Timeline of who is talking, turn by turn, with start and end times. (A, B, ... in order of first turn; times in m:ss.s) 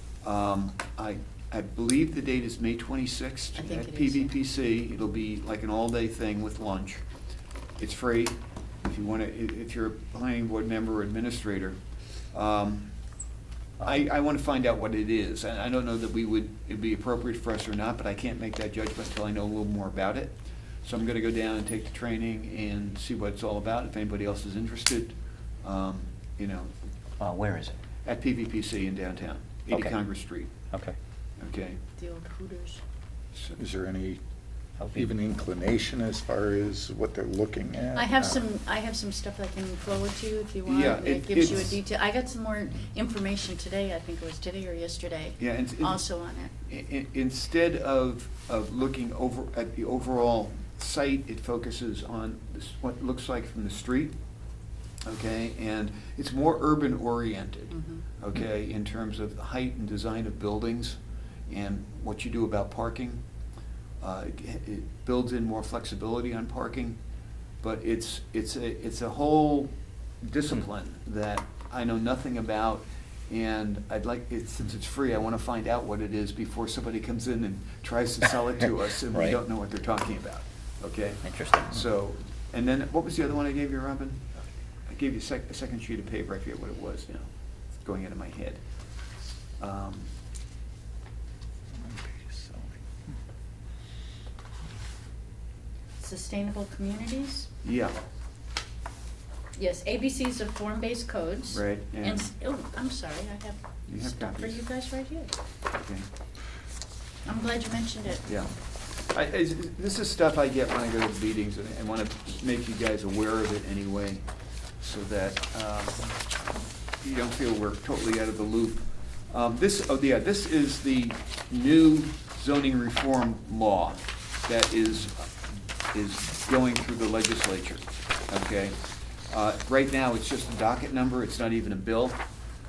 0:00.2-0:07.0 A
0:03.6-0:04.3 B
0:07.8-0:11.8 A
0:12.3-0:12.9 A
0:13.8-0:26.7 A
0:27.2-0:27.8 C
0:28.0-0:30.5 A
0:29.7-0:30.0 C
0:31.4-0:31.8 A
0:32.0-0:32.8 B
0:33.5-0:34.2 D
0:34.8-0:35.1 C
0:34.9-0:38.4 D
0:37.9-0:46.5 B
0:40.6-0:41.7 A
0:45.4-0:46.0 A
0:46.7-0:54.1 A
0:55.0-1:01.0 A
0:57.7-0:58.0 B
1:01.5-1:03.2 A
1:04.0-1:07.0 A
1:07.6-1:24.4 A
1:19.1-1:19.4 C
1:21.2-1:21.8 C
1:24.9-1:27.3 A
1:27.8-1:28.6 A
1:29.6-1:30.1 A
1:31.8-1:32.7 D
1:36.0-1:37.5 B
1:37.6-1:38.0 A
1:39.6-1:45.3 B
1:41.5-1:42.3 A
1:43.9-1:44.6 A
1:45.7-1:46.1 A
1:47.2-1:48.3 B
1:48.3-1:54.2 A
1:54.8-1:56.2 A
1:57.0-2:05.3 A
2:05.9-2:08.8 A
2:09.3-2:12.2 A